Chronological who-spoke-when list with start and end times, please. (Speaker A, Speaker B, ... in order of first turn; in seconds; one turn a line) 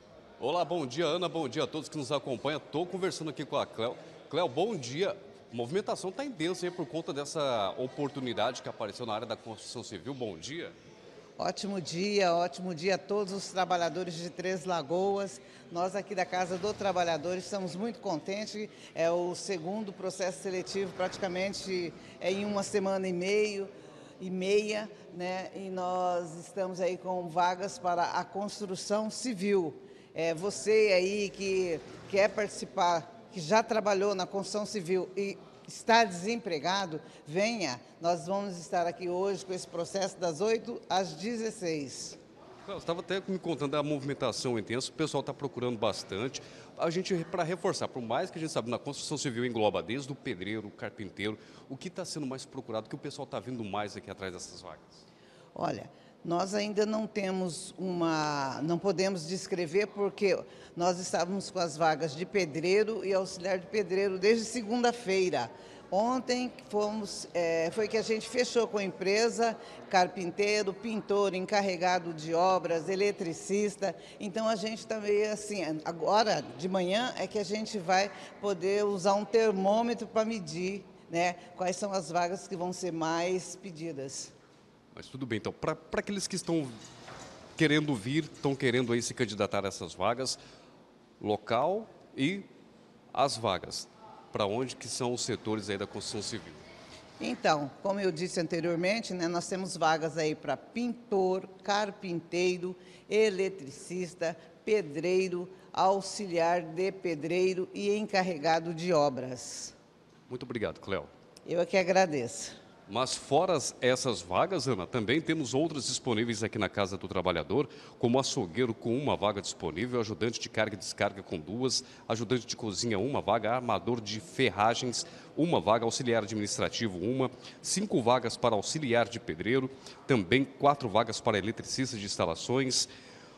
Speaker A: 0.4-10.7
Speaker B: 11.4-42.2
Speaker A: 42.6-55.0
Speaker B: 55.5-84.3
Speaker A: 84.9-86.8
Speaker A: 87.6-90.4
Speaker A: 91.2-92.5
Speaker A: 93.1-96.6
Speaker B: 97.2-109.7
Speaker A: 110.3-111.1
Speaker B: 111.4-112.5
Speaker A: 112.9-132.9